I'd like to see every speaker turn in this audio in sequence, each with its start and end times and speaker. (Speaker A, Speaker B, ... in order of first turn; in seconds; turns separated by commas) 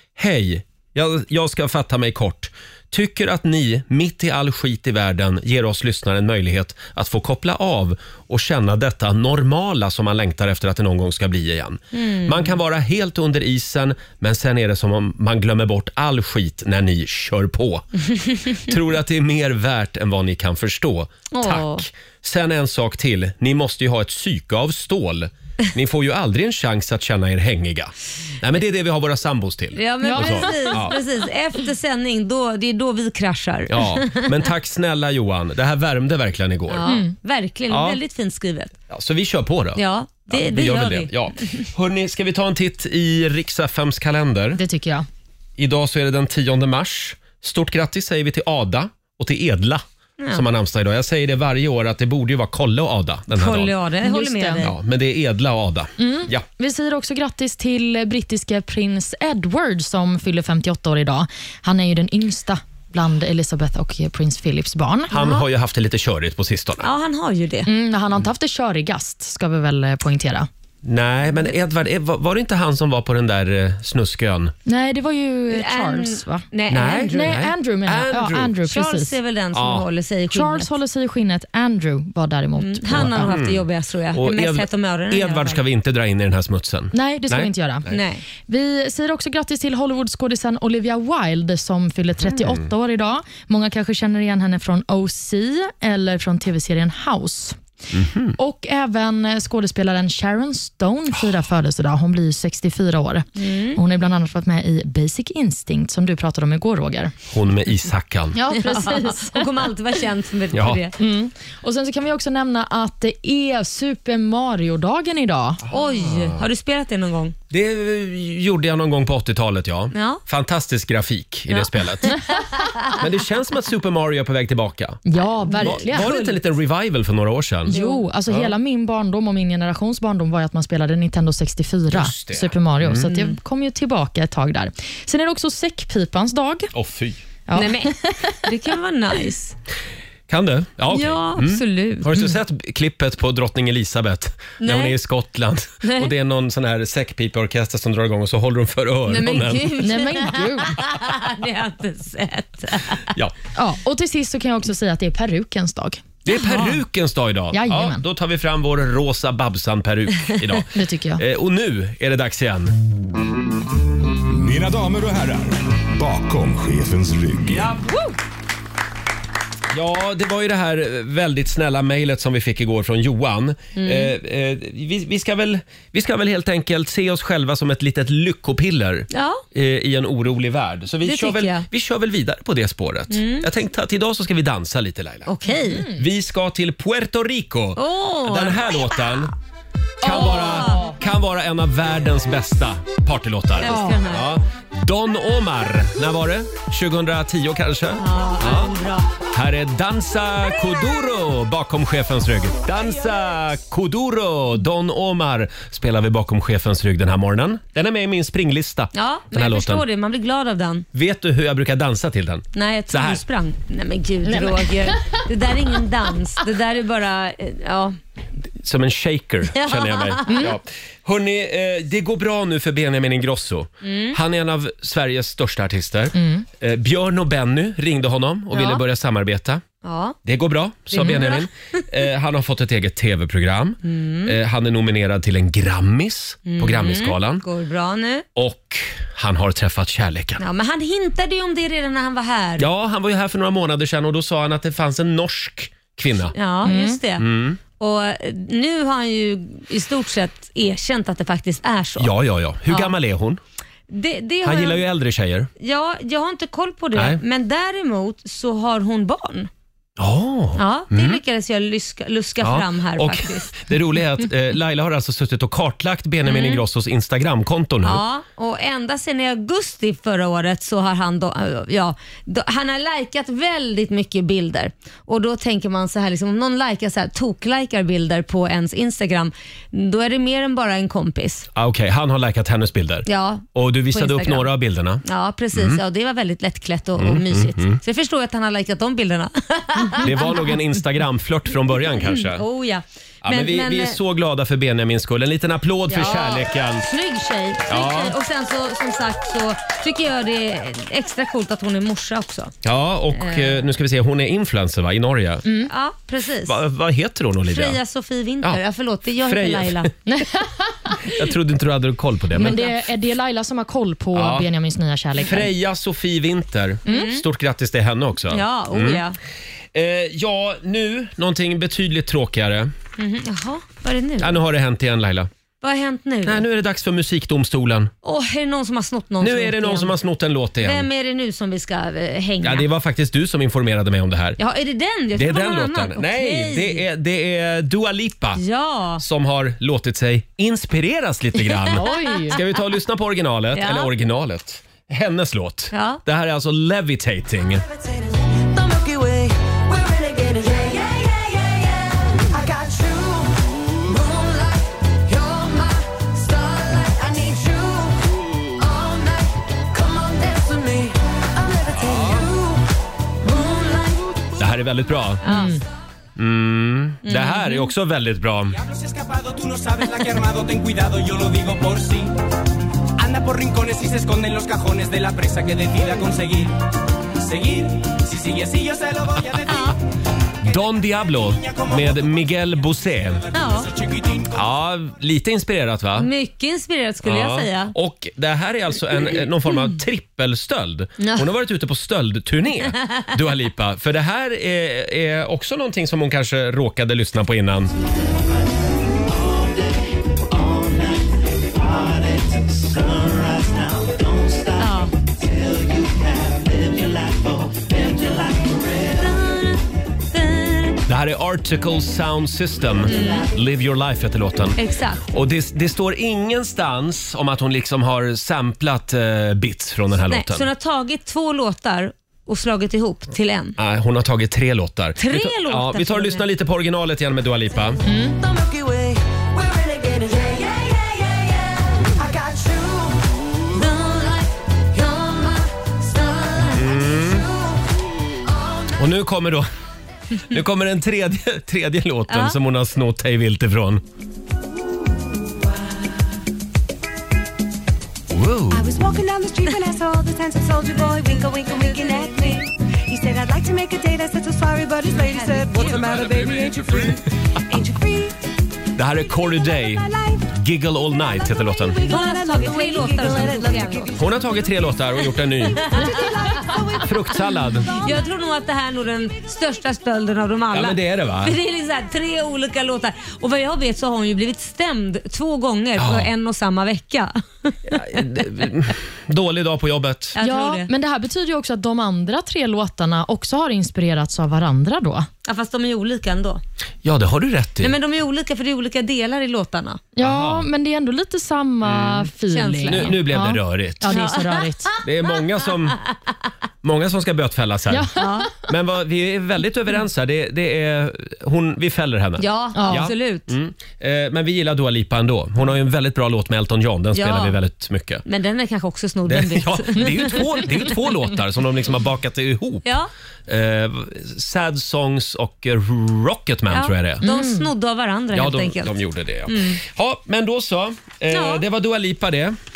Speaker A: 0.2-30.9, Speaker B: 11.9-12.5, Speaker B: 21.3-21.8, Speaker B: 29.7-34.3, Speaker C: 30.0-30.7, Speaker A: 33.7-36.8, Speaker B: 36.7-38.7, Speaker C: 36.9-37.1, Speaker A: 37.7-38.0, Speaker A: 38.9-44.6, Speaker B: 39.8-41.1, Speaker C: 44.5-45.0, Speaker A: 45.6-53.8, Speaker B: 53.3-54.7, Speaker C: 54.0-54.6, Speaker A: 54.6-56.5, Speaker C: 56.0-65.1, Speaker B: 65.1-65.5, Speaker A: 65.1-66.9, Speaker B: 66.8-67.7, Speaker C: 67.7-70.5, Speaker A: 70.8-74.5, Speaker C: 74.7-76.5, Speaker B: 75.5-77.4, Speaker A: 76.7-78.6, Speaker C: 77.1-79.1, Speaker B: 78.6-80.7, Speaker A: 79.5-79.8, Speaker C: 80.3-83.3, Speaker B: 82.6-85.6, Speaker A: 82.9-87.9, Speaker C: 86.9-87.8, Speaker B: 87.9-88.2, Speaker C: 88.5-97.6, Speaker A: 92.3-92.7, Speaker A: 97.9-98.3, Speaker C: 98.4-107.1, Speaker B: 103.4-103.8, Speaker A: 107.3-108.4, Speaker C: 108.3-109.5, Speaker B: 108.5-110.9, Speaker A: 110.5-110.8, Speaker C: 111.0-115.6, Speaker B: 115.7-117.3, Speaker A: 115.7-116.4, Speaker A: 117.5-122.2, Speaker B: 119.9-120.2, Speaker B: 121.5-123.0, Speaker A: 122.9-128.5, Speaker C: 125.0-126.1, Speaker B: 125.5-126.4, Speaker C: 127.7-136.7, Speaker B: 127.7-128.0, Speaker A: 131.9-133.3, Speaker A: 136.7-137.2, Speaker C: 137.5-138.4, Speaker B: 137.5-139.6, Speaker A: 140.3-149.9, Speaker B: 140.9-142.1, Speaker B: 144.6-145.0, Speaker B: 145.8-146.1, Speaker B: 149.1-153.1, Speaker C: 149.8-150.7, Speaker C: 153.6-156.8, Speaker A: 156.2-162.8, Speaker C: 157.5-158.0, Speaker C: 160.7-161.2, Speaker D: 164.3-167.7, Speaker A: 167.5-167.8, Speaker A: 169.7-189.3, Speaker B: 173.8-174.1, Speaker B: 179.1-179.4, Speaker B: 181.0-181.6, Speaker B: 183.1-183.5, Speaker B: 185.3-185.9, Speaker C: 185.7-186.0, Speaker B: 187.8-189.1, Speaker A: 190.0-198.7, Speaker B: 190.0-190.9, Speaker C: 190.0-190.9, Speaker B: 193.6-194.3, Speaker C: 193.7-194.0, Speaker B: 198.0-199.1, Speaker A: 199.3-209.8, Speaker B: 208.9-210.8, Speaker A: 210.9-213.2, Speaker B: 212.5-218.0, Speaker C: 214.2-215.2, Speaker A: 218.6-229.6, Speaker B: 219.5-220.4, Speaker C: 220.3-220.5, Speaker B: 223.8-224.2, Speaker C: 226.1-226.4, Speaker B: 228.5-228.8, Speaker B: 229.8-230.2, Speaker A: 230.2-237.4, Speaker B: 230.9-231.5, Speaker B: 233.8-234.3, Speaker B: 236.4-238.2, Speaker A: 238.3-240.4, Speaker B: 240.4-242.6, Speaker A: 242.6-246.3, Speaker B: 246.3-247.2, Speaker C: 246.6-247.0, Speaker A: 247.2-247.6, Speaker B: 247.8-252.1, Speaker A: 252.0-253.4, Speaker B: 253.9-254.8, Speaker A: 254.4-255.5, Speaker B: 255.6-259.5, Speaker A: 256.9-257.2, Speaker A: 260.0-261.2, Speaker B: 260.6-263.5, Speaker A: 262.4-268.0, Speaker B: 266.2-266.6, Speaker B: 267.8-281.5, Speaker A: 281.5-285.0, Speaker B: 283.1-290.6, Speaker A: 285.5-285.8, Speaker A: 287.0-287.8, Speaker A: 290.0-292.4, Speaker B: 292.0-294.0, Speaker A: 293.2-296.9, Speaker B: 295.9-302.5, Speaker A: 297.7-298.1, Speaker A: 302.6-305.4, Speaker B: 303.1-303.7, Speaker C: 305.4-305.7, Speaker B: 305.6-306.6, Speaker A: 306.4-307.8, Speaker B: 307.5-309.9, Speaker A: 309.2-309.9, Speaker C: 310.1-311.2, Speaker A: 311.1-312.8, Speaker C: 312.3-315.5, Speaker A: 314.1-314.5, Speaker A: 315.1-319.0, Speaker B: 316.9-317.2, Speaker B: 318.3-319.2, Speaker A: 319.7-322.7, Speaker B: 323.0-324.4, Speaker A: 324.2-325.3, Speaker B: 325.6-326.4, Speaker A: 326.2-327.9, Speaker B: 328.0-329.9, Speaker A: 329.2-330.9, Speaker B: 330.6-332.7, Speaker A: 332.4-334.4, Speaker B: 334.4-336.8, Speaker A: 335.1-338.4, Speaker B: 338.4-339.0, Speaker A: 339.0-347.6, Speaker B: 341.7-342.4, Speaker C: 341.8-342.4, Speaker B: 343.5-343.9, Speaker B: 345.7-346.0, Speaker E: 347.6-364.5, Speaker A: 361.7-362.2, Speaker A: 364.4-365.4, Speaker B: 365.2-365.6, Speaker C: 365.2-365.5, Speaker A: 366.1-368.6, Speaker B: 367.0-367.7, Speaker F: 368.5-372.2, Speaker F: 373.0-376.6, Speaker F: 377.2-379.8, Speaker B: 379.5-379.7, Speaker A: 380.4-383.2, Speaker F: 381.0-384.5, Speaker B: 383.3-383.7, Speaker A: 384.3-386.1, Speaker B: 386.0-387.7, Speaker A: 387.0-397.7, Speaker B: 391.0-391.2, Speaker E: 399.1-399.7, Speaker E: 400.3-409.2, Speaker B: 404.6-404.9, Speaker B: 409.0-409.6, Speaker B: 410.1-410.8, Speaker A: 410.9-420.5, Speaker B: 412.8-413.3, Speaker B: 414.6-415.0, Speaker B: 420.1-423.6, Speaker A: 423.6-427.8, Speaker B: 425.0-426.2, Speaker C: 427.8-428.2, Speaker E: 428.1-438.8, Speaker A: 436.5-437.2, Speaker A: 438.8-439.5, Speaker A: 440.2-443.8, Speaker B: 442.1-442.4, Speaker E: 444.7-445.9, Speaker A: 448.1-448.7, Speaker E: 448.5-458.2, Speaker B: 454.9-455.7, Speaker D: 455.7-456.9, Speaker A: 458.8-461.8, Speaker E: 459.0-460.3, Speaker E: 461.2-464.5, Speaker B: 461.8-463.9, Speaker A: 463.9-465.8, Speaker B: 465.6-466.4, Speaker E: 465.7-468.0, Speaker A: 466.8-467.8, Speaker B: 467.7-478.2, Speaker A: 470.5-471.4, Speaker A: 475.8-476.1, Speaker A: 477.7-480.1, Speaker B: 480.1-480.7, Speaker C: 480.2-485.1, Speaker B: 485.2-486.4, Speaker A: 486.8-487.7, Speaker B: 487.6-489.8, Speaker C: 489.9-494.7, Speaker A: 490.0-490.5, Speaker A: 491.6-492.1, Speaker B: 492.3-493.0, Speaker A: 492.7-494.1, Speaker B: 493.9-494.8, Speaker A: 494.8-495.8, Speaker A: 496.6-497.9, Speaker C: 497.7-498.3, Speaker B: 498.0-498.3, Speaker A: 498.4-508.0, Speaker B: 502.2-503.3, Speaker C: 502.5-502.9, Speaker B: 506.9-507.4, Speaker B: 508.1-510.4, Speaker A: 509.1-512.6, Speaker B: 512.6-512.9, Speaker A: 513.3-517.1, Speaker B: 516.5-518.7, Speaker C: 517.0-517.5, Speaker A: 518.1-522.4, Speaker B: 519.3-519.6, Speaker B: 521.1-521.4